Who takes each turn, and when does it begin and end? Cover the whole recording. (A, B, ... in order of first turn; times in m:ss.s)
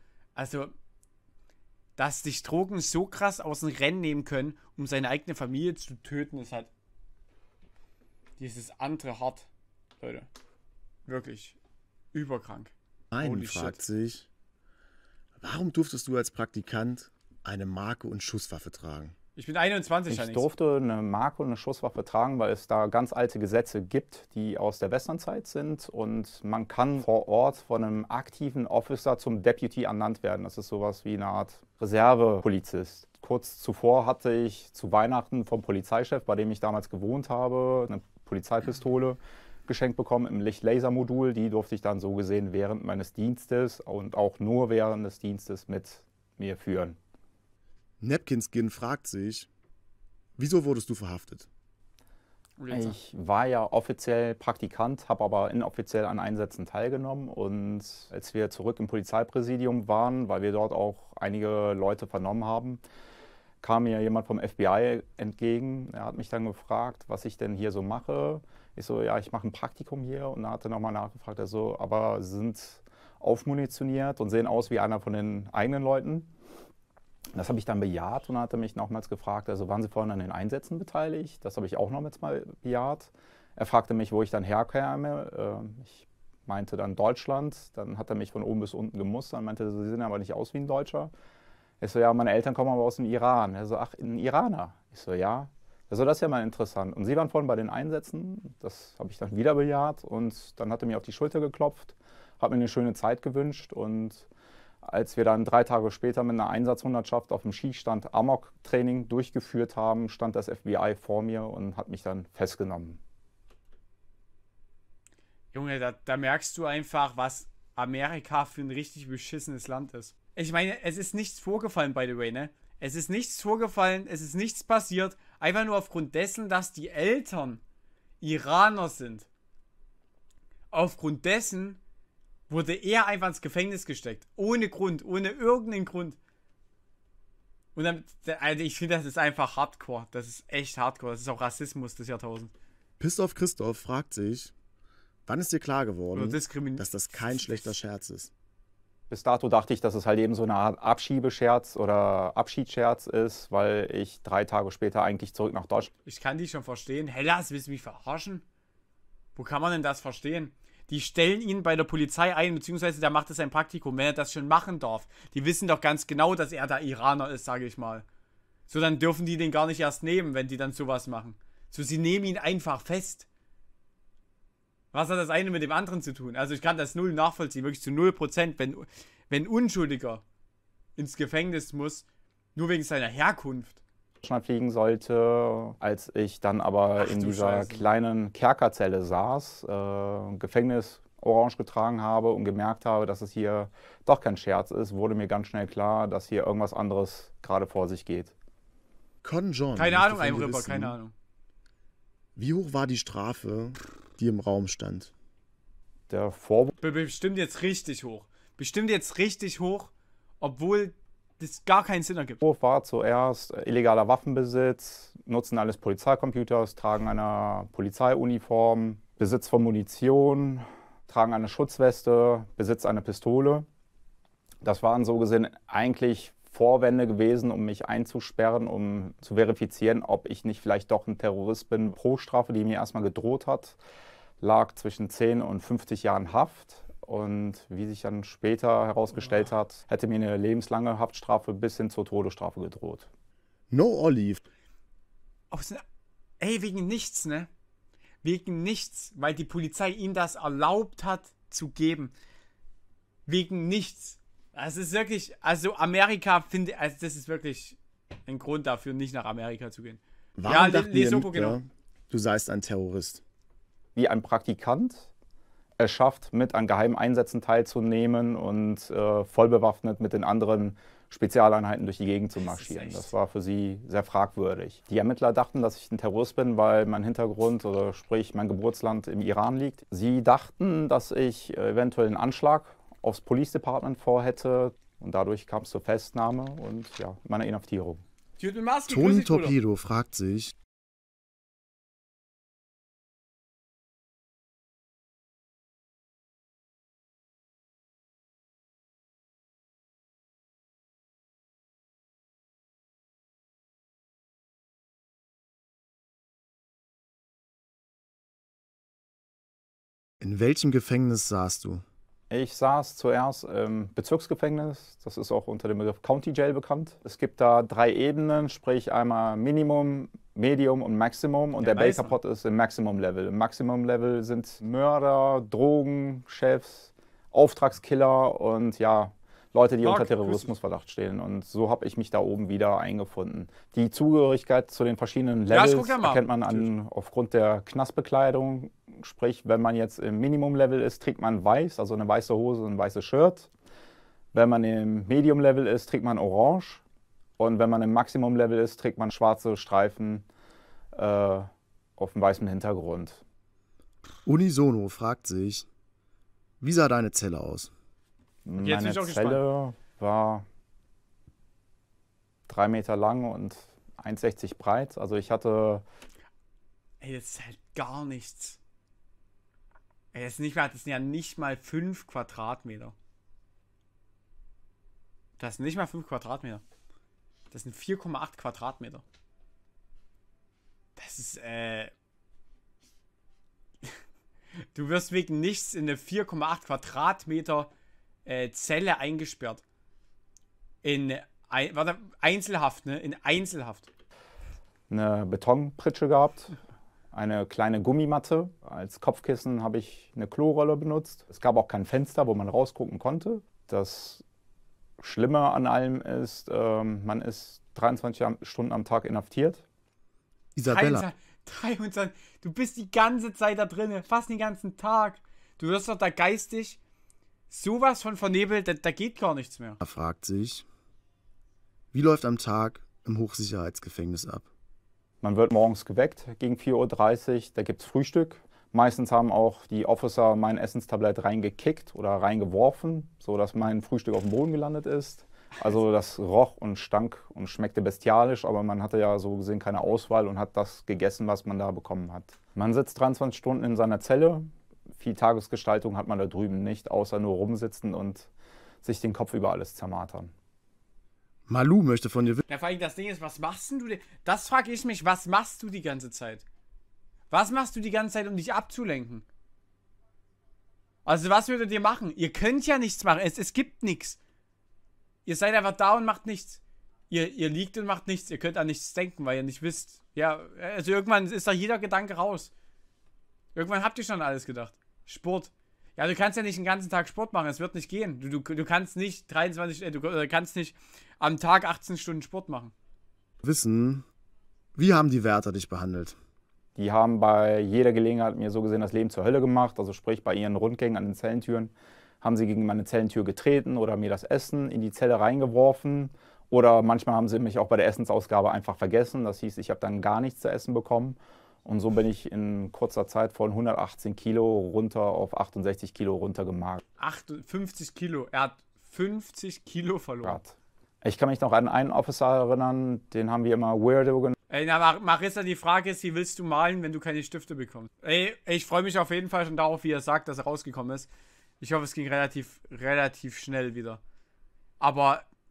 0:00.3-0:00.7 A
0:02.0-0:06.7 A
0:08.4-0:09.5 A
0:10.0-0:10.3 A
0:11.0-0:11.6 A
0:12.1-0:13.8 A
0:13.1-0:14.3 B
0:15.4-0:19.1 B
0:19.4-0:20.5 A
0:20.1-0:47.0 C
0:48.0-0:49.5 B
0:50.4-0:51.5 B
0:52.6-0:53.0 A
0:52.7-1:02.8 C
1:03.6-1:16.3 C
1:17.3-1:31.1 C
1:31.8-1:44.3 C
1:44.8-1:53.0 C
1:55.5-2:07.6 A
2:08.2-2:09.3 A
2:10.7-2:11.8 A
2:12.5-2:16.2 A
2:17.7-2:22.5 A
2:23.0-2:24.5 B
2:25.3-2:28.3 B
2:26.1-2:27.7 A
2:29.1-2:35.9 C
2:36.0-2:38.4 A
2:39.4-2:48.0 A
2:48.7-2:53.3 A
2:54.9-3:00.2 A
3:01.0-3:03.8 A
3:04.2-3:18.3 C
3:07.0-3:07.9 A
3:19.2-3:21.0 B
3:19.8-3:21.1 A
3:22.4-3:25.1 B
3:26.1-3:26.7 C
3:26.8-3:32.4 A
3:32.4-3:43.6 C
3:44.6-3:53.8 C
3:54.4-4:03.1 C
4:03.7-4:04.4 B
4:05.5-4:05.8 A
4:06.4-4:07.5 A
4:08.2-4:12.1 A
4:13.2-4:21.6 A
4:20.4-4:23.2 B
4:24.0-4:25.1 C
4:25.8-4:48.0 C
4:32.4-4:33.1 A
4:48.4-4:49.6 A
4:48.9-4:50.5 B
5:10.2-5:11.8 B
5:12.3-5:43.5 C
5:21.6-5:22.2 A
5:29.8-5:30.5 A
5:35.5-5:36.7 A
5:44.3-5:46.8 C
5:47.4-5:50.2 C
5:50.9-5:53.2 C
5:54.2-5:55.6 B
5:56.6-5:57.7 B
5:58.4-6:00.4 C
5:58.6-5:59.4 A
6:02.5-6:05.8 C
6:07.0-6:08.6 A
6:10.1-6:12.9 A
6:15.4-6:16.6 A
6:17.5-6:19.0 A
6:21.0-6:21.9 A
6:24.7-6:27.7 A
6:28.2-6:29.6 A
6:30.8-6:33.9 A
6:34.9-6:36.6 C
6:37.1-6:44.2 C
6:45.0-6:49.6 C
6:50.6-6:51.0 B
6:50.6-6:56.8 A
6:57.5-6:59.8 A
6:59.8-7:00.6 B
7:01.9-7:04.5 B
7:05.2-7:28.3 C
7:28.8-7:30.3 C
7:31.5-7:32.4 B
7:32.5-7:36.4 A
7:37.3-7:39.2 A
7:41.0-7:44.2 A
7:45.2-7:52.5 A
7:53.5-8:02.7 A
8:03.4-8:04.0 B
8:04.7-8:06.2 B
8:06.8-8:26.8 C
8:27.0-8:30.4 A
8:30.2-8:34.4 C
8:34.5-8:41.1 A
8:41.6-8:44.0 A
8:44.8-8:45.2 A